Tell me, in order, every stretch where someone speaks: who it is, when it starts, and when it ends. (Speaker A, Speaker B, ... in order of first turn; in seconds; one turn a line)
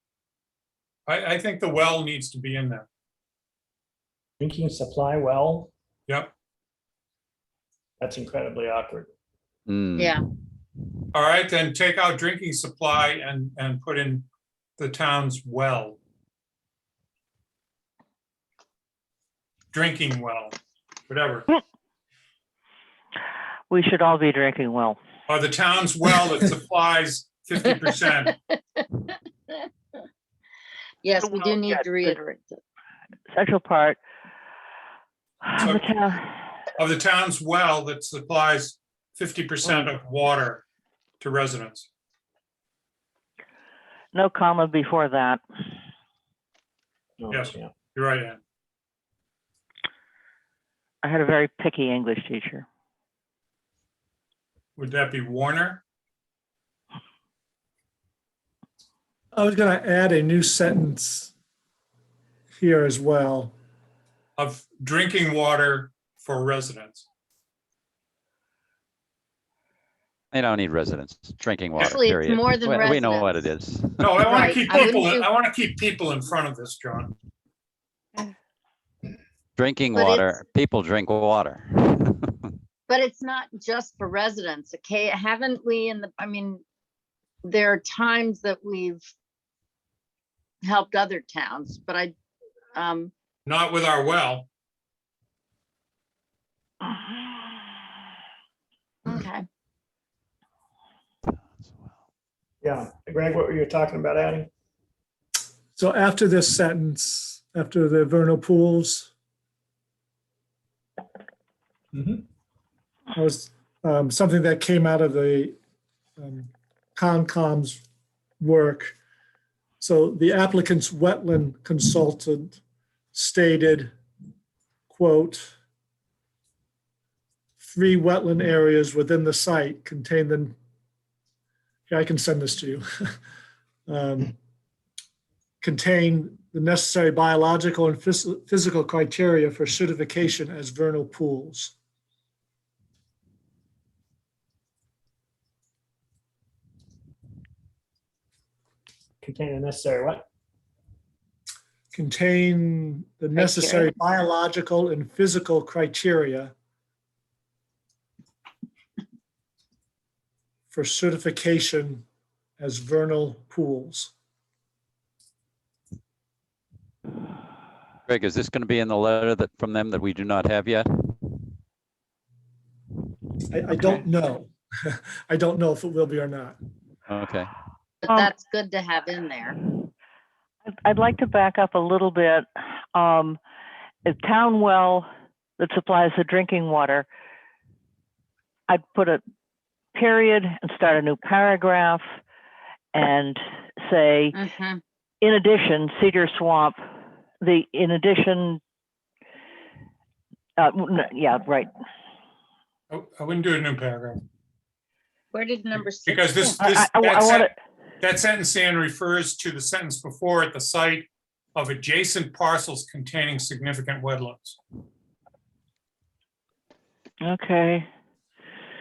Speaker A: 1.1-2.9
Speaker B: 4.4-5.7
Speaker B: 8.0-9.1
Speaker C: 9.7-10.2
Speaker A: 11.1-14.3
Speaker A: 14.8-16.0
Speaker A: 19.7-20.6
Speaker A: 21.1-21.5
Speaker D: 23.7-25.0
Speaker A: 25.3-28.4
Speaker E: 27.9-28.8
Speaker E: 31.0-32.6
Speaker D: 31.2-32.2
Speaker D: 33.3-34.0
Speaker D: 35.4-36.2
Speaker A: 35.6-35.9
Speaker A: 36.8-40.6
Speaker A: 41.2-41.9
Speaker D: 44.1-45.4
Speaker B: 47.2-47.7
Speaker A: 47.3-48.4
Speaker D: 51.0-52.6
Speaker A: 54.8-55.8
Speaker F: 59.3-61.3
Speaker F: 62.6-63.5
Speaker A: 64.4-67.1
Speaker C: 70.3-74.4
Speaker E: 71.8-73.5
Speaker A: 74.0-77.1
Speaker E: 74.2-75.3
Speaker C: 79.6-82.5
Speaker E: 79.9-80.4
Speaker E: 82.9-86.6
Speaker E: 87.4-89.0
Speaker E: 90.6-92.1
Speaker E: 92.8-93.1
Speaker A: 93.5-94.5
Speaker E: 99.1-99.5
Speaker B: 102.6-104.5
Speaker F: 105.8-109.1
Speaker B: 111.9-112.2
Speaker F: 113.1-115.6
Speaker F: 116.2-117.8
Speaker F: 118.4-119.0
Speaker F: 119.8-122.6
Speaker F: 123.1-123.9
Speaker F: 124.9-125.5
Speaker F: 127.6-130.6
Speaker F: 131.9-132.8
Speaker F: 133.9-134.4
Speaker F: 135.6-141.7
Speaker B: 149.2-150.3
Speaker F: 151.9-156.5
Speaker E: 153.4-153.9
Speaker F: 160.7-162.1
Speaker F: 162.6-164.1
Speaker C: 168.1-171.3
Speaker F: 173.5-176.6
Speaker C: 177.1-177.5
Speaker E: 178.0-179.6
Speaker D: 180.7-183.4
Speaker D: 184.1-185.1
Speaker D: 185.6-187.1
Speaker D: 188.7-189.2
Speaker D: 189.9-192.0
Speaker D: 192.9-194.4
Speaker E: 194.4-194.8
Speaker D: 195.2-196.8
Speaker D: 197.4-198.6
Speaker D: 200.6-201.7
Speaker A: 202.9-204.2
Speaker E: 205.3-206.6
Speaker A: 206.1-207.5
Speaker D: 206.6-207.5
Speaker A: 208.0-214.6
Speaker D: 217.2-217.9